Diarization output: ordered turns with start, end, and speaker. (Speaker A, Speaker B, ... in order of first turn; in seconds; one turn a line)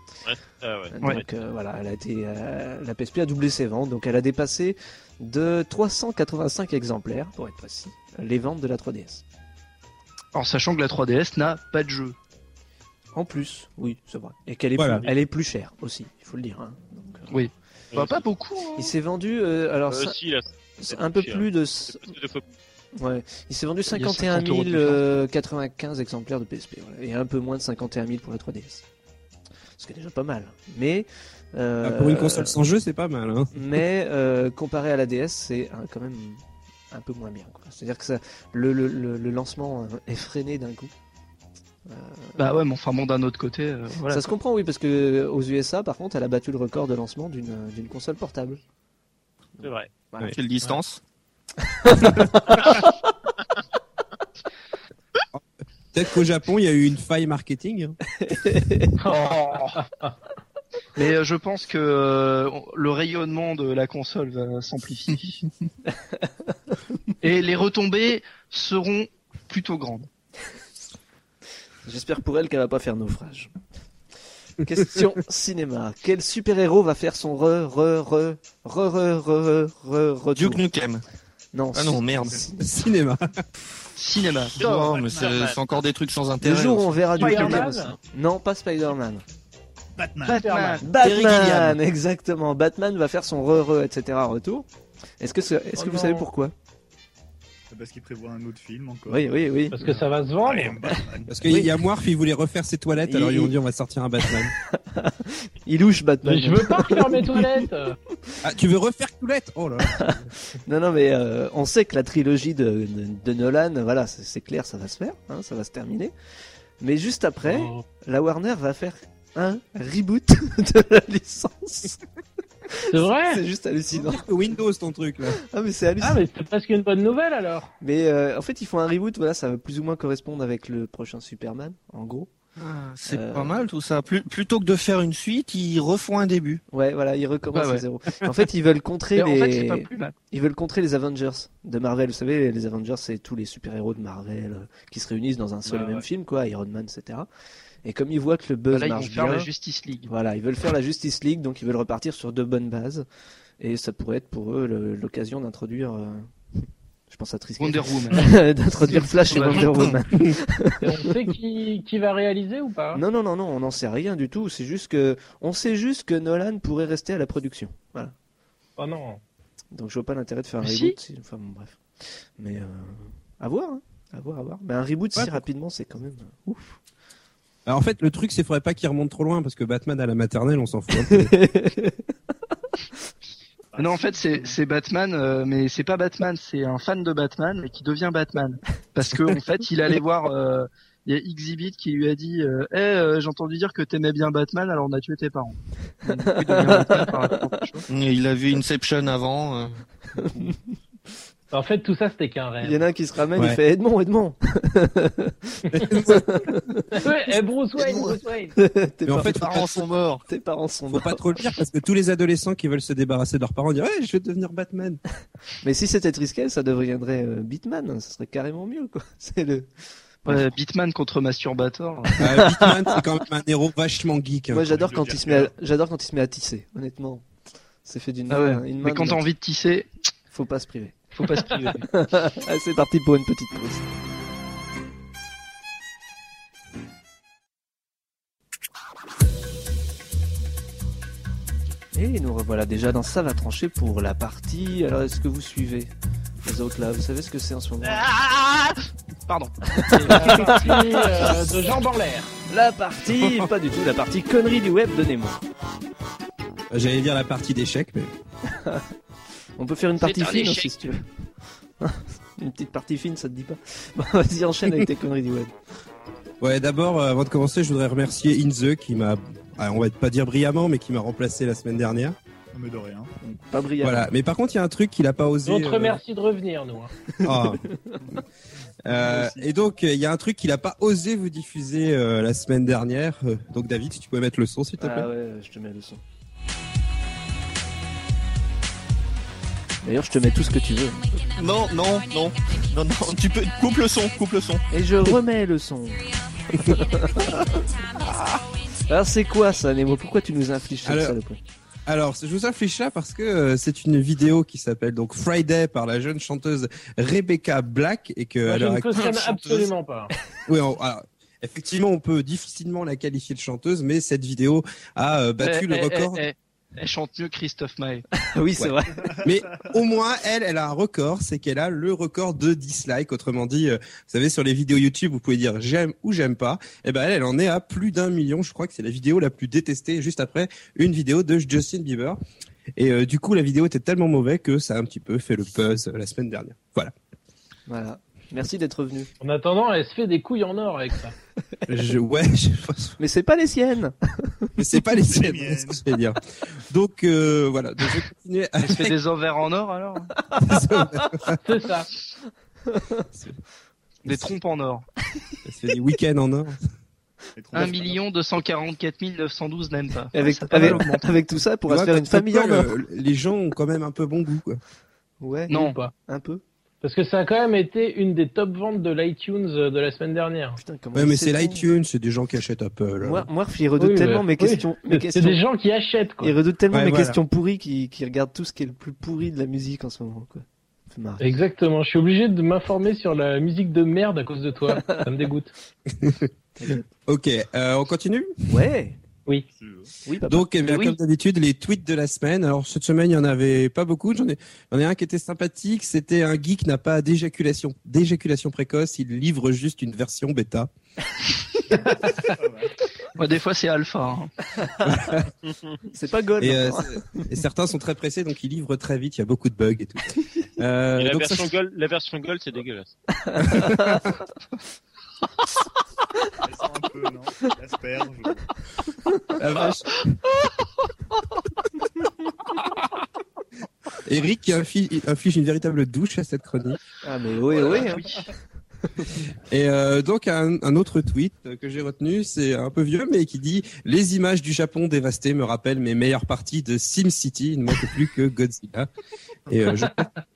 Speaker A: 0.2-1.2
Speaker B: 0.9-9.2
Speaker C: 10.3-12.2
Speaker B: 13.1-17.3
Speaker D: 14.8-15.1
Speaker C: 17.3-18.9
Speaker A: 17.9-18.2
Speaker B: 18.8-20.2
Speaker A: 19.9-22.4
Speaker B: 20.8-22.1
Speaker B: 22.9-28.8
Speaker C: 23.9-25.2
Speaker B: 29.8-32.5
Speaker D: 31.8-33.6
Speaker B: 33.5-40.9
Speaker B: 41.9-42.4
Speaker C: 42.4-44.2
Speaker B: 44.1-48.6
Speaker B: 49.6-50.3
Speaker A: 49.6-49.9
Speaker E: 50.3-51.0
Speaker B: 51.7-52.9
Speaker D: 55.3-58.0
Speaker B: 58.2-58.9
Speaker F: 59.0-60.1
Speaker C: 59.2-59.8
Speaker C: 61.0-65.4
Speaker C: 67.2-70.1
Speaker B: 71.8-73.5
Speaker B: 74.6-80.7
Speaker E: 80.3-81.0
Speaker B: 81.5-82.7
Speaker E: 81.7-82.4
Speaker D: 82.6-83.4
Speaker C: 84.0-85.0
Speaker E: 84.5-87.6
Speaker G: 84.6-85.6
Speaker A: 85.2-85.6
Speaker B: 86.4-89.2
Speaker F: 87.2-88.0
Speaker C: 87.2-87.5
Speaker G: 90.0-90.5
Speaker C: 90.2-91.8
Speaker F: 90.3-90.9
Speaker B: 90.8-94.7
Speaker B: 95.2-96.5
Speaker F: 95.8-96.2
Speaker G: 97.7-99.5
Speaker B: 99.1-100.0
Speaker F: 99.7-100.8
Speaker G: 100.4-101.3
Speaker D: 101.3-104.5
Speaker B: 101.5-101.7
Speaker B: 103.0-103.5
Speaker B: 104.7-107.6
Speaker F: 106.2-108.0
Speaker D: 108.4-110.3
Speaker B: 109.9-116.1
Speaker B: 116.8-122.0
Speaker F: 117.4-117.8
Speaker B: 122.7-124.2
Speaker F: 122.9-123.4
Speaker D: 123.9-125.4
Speaker B: 125.3-126.2
Speaker F: 126.0-127.7
Speaker B: 127.8-132.3
Speaker E: 132.6-136.6
Speaker B: 133.1-133.7
Speaker B: 136.7-147.3
Speaker C: 137.5-137.8
Speaker C: 139.2-140.1
Speaker B: 147.8-149.5
Speaker C: 148.7-150.1
Speaker B: 150.1-153.0
Speaker B: 153.6-156.3
Speaker B: 157.1-160.9
Speaker C: 157.6-158.3
Speaker C: 159.3-159.8
Speaker F: 160.8-163.0
Speaker B: 162.9-168.1
Speaker F: 168.8-169.2
Speaker B: 169.7-171.8
Speaker C: 170.6-170.9
Speaker B: 172.4-176.8
Speaker D: 175.2-175.4
Speaker D: 177.7-181.3
Speaker B: 180.9-182.0
Speaker G: 183.7-184.6
Speaker C: 183.8-197.8
Speaker B: 196.2-197.2
Speaker E: 197.9-199.8
Speaker B: 200.2-200.6
Speaker F: 201.5-202.8
Speaker B: 202.6-207.1
Speaker D: 205.7-206.4
Speaker F: 206.9-208.6
Speaker B: 208.5-211.3
Speaker D: 209.1-209.6
Speaker E: 209.2-210.2
Speaker D: 210.9-215.0
Speaker B: 215.6-219.7
Speaker B: 220.2-220.5
Speaker C: 220.2-222.2
Speaker D: 222.2-224.8
Speaker B: 222.2-223.0
Speaker B: 224.5-227.2
Speaker G: 224.7-225.5
Speaker B: 227.8-229.2
Speaker C: 228.3-229.9
Speaker B: 230.3-233.9
Speaker C: 231.1-231.8
Speaker B: 241.9-245.9
Speaker B: 246.4-248.1
Speaker C: 248.0-248.6
Speaker C: 249.3-251.4
Speaker B: 249.9-250.9
Speaker F: 250.1-252.3
Speaker B: 252.5-255.4
Speaker D: 253.1-253.5
Speaker D: 256.7-258.1
Speaker B: 258.5-258.8
Speaker B: 259.6-261.0
Speaker C: 260.0-260.9
Speaker B: 261.8-265.5
Speaker D: 266.4-272.1
Speaker G: 272.5-273.1
Speaker B: 273.2-274.1
Speaker D: 273.8-276.0
Speaker F: 275.4-276.9
Speaker B: 277.2-277.9
Speaker D: 277.2-277.6
Speaker D: 278.9-285.1
Speaker G: 278.9-279.5
Speaker B: 284.8-286.0
Speaker B: 289.8-291.1
Speaker E: 291.3-294.6
Speaker B: 294.7-296.1
Speaker B: 296.6-297.3
Speaker B: 298.9-301.4
Speaker D: 300.8-301.2
Speaker D: 301.9-309.7
Speaker F: 308.4-310.1
Speaker D: 310.5-316.2
Speaker C: 315.4-318.1
Speaker B: 318.1-319.1
Speaker D: 318.6-332.2
Speaker G: 319.0-319.7
Speaker D: 332.8-336.9
Speaker B: 337.7-339.1
Speaker F: 339.2-341.1
Speaker D: 341.7-343.0
Speaker B: 343.0-344.5
Speaker D: 344.6-346.2
Speaker G: 344.9-345.8
Speaker D: 346.7-348.9
Speaker C: 348.6-350.1
Speaker D: 350.4-351.4
Speaker B: 350.7-351.1
Speaker F: 351.4-351.9
Speaker B: 352.7-353.0
Speaker C: 354.0-354.8
Speaker D: 354.1-354.3
Speaker D: 355.4-356.6
Speaker G: 357.4-358.0
Speaker C: 357.5-361.1
Speaker B: 360.1-362.7
Speaker D: 360.6-360.9
Speaker D: 361.7-364.6
Speaker B: 365.2-366.4
Speaker C: 365.5-365.8
Speaker F: 365.5-365.9
Speaker F: 366.8-370.6
Speaker B: 370.6-371.7
Speaker D: 370.9-373.3
Speaker B: 373.0-375.4
Speaker F: 373.8-376.4
Speaker B: 376.2-381.3
Speaker D: 376.7-377.2
Speaker F: 381.2-385.5
Speaker B: 384.8-385.0
Speaker D: 385.9-386.3
Speaker B: 386.6-386.9
Speaker D: 387.1-388.3
Speaker B: 388.5-389.0
Speaker G: 389.5-389.9
Speaker B: 390.1-390.5
Speaker D: 390.2-400.7
Speaker C: 390.6-390.9
Speaker G: 401.7-402.7
Speaker C: 403.1-404.3
Speaker B: 404.6-405.0
Speaker D: 404.8-405.3
Speaker B: 405.9-407.3
Speaker D: 406.4-411.5
Speaker A: 410.9-412.9
Speaker B: 413.3-413.9
Speaker D: 413.4-414.1
Speaker G: 416.4-418.5
Speaker D: 419.4-419.9
Speaker D: 424.1-426.8
Speaker B: 427.0-428.2
Speaker D: 429.5-438.9
Speaker D: 439.5-440.1